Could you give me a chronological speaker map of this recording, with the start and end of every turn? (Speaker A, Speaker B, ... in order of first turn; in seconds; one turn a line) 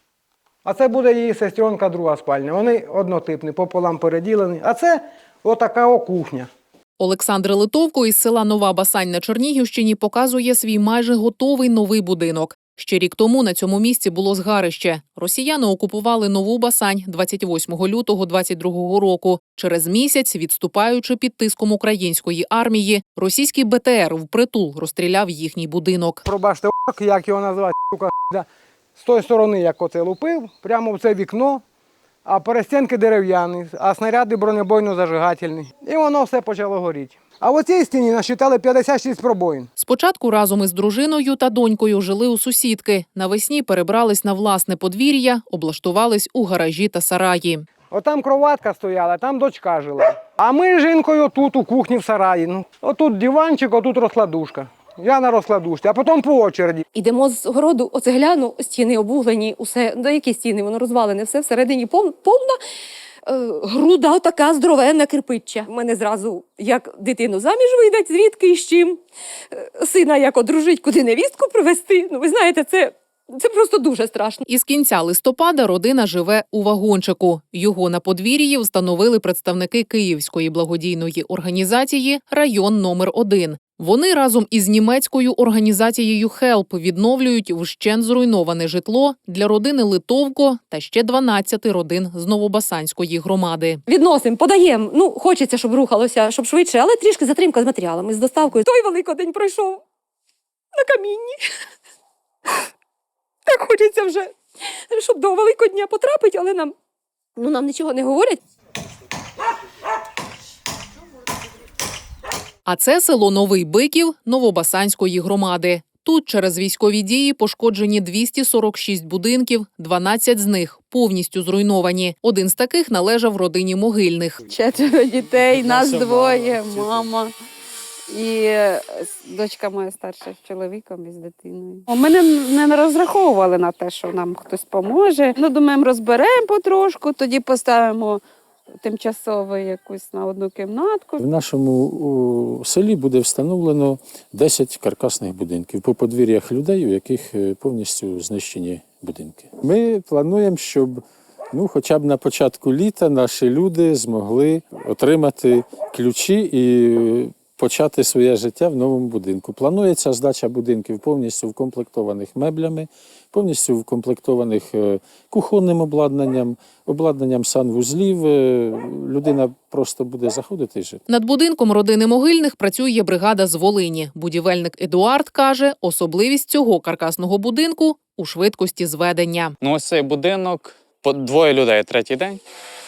Speaker A: 0.6-6.5
Speaker B: 7.0-26.2
Speaker A: 26.2-31.6
Speaker A: 32.2-39.7
Speaker B: 39.8-47.7
Speaker A: 47.9-56.9
Speaker C: 56.9-62.6
Speaker C: 63.3-74.4
Speaker B: 74.5-93.8
Speaker C: 93.9-99.8
Speaker C: 100.7-101.4
Speaker C: 103.5-104.4
Speaker C: 104.9-106.8
Speaker C: 107.4-108.4
Speaker B: 112.7-124.4
Speaker D: 124.5-127.3
Speaker E: 125.4-127.1
Speaker D: 128.1-138.2
Speaker D: 138.8-141.2
Speaker E: 141.2-171.0
Speaker B: 171.1-179.6
Speaker F: 179.6-182.4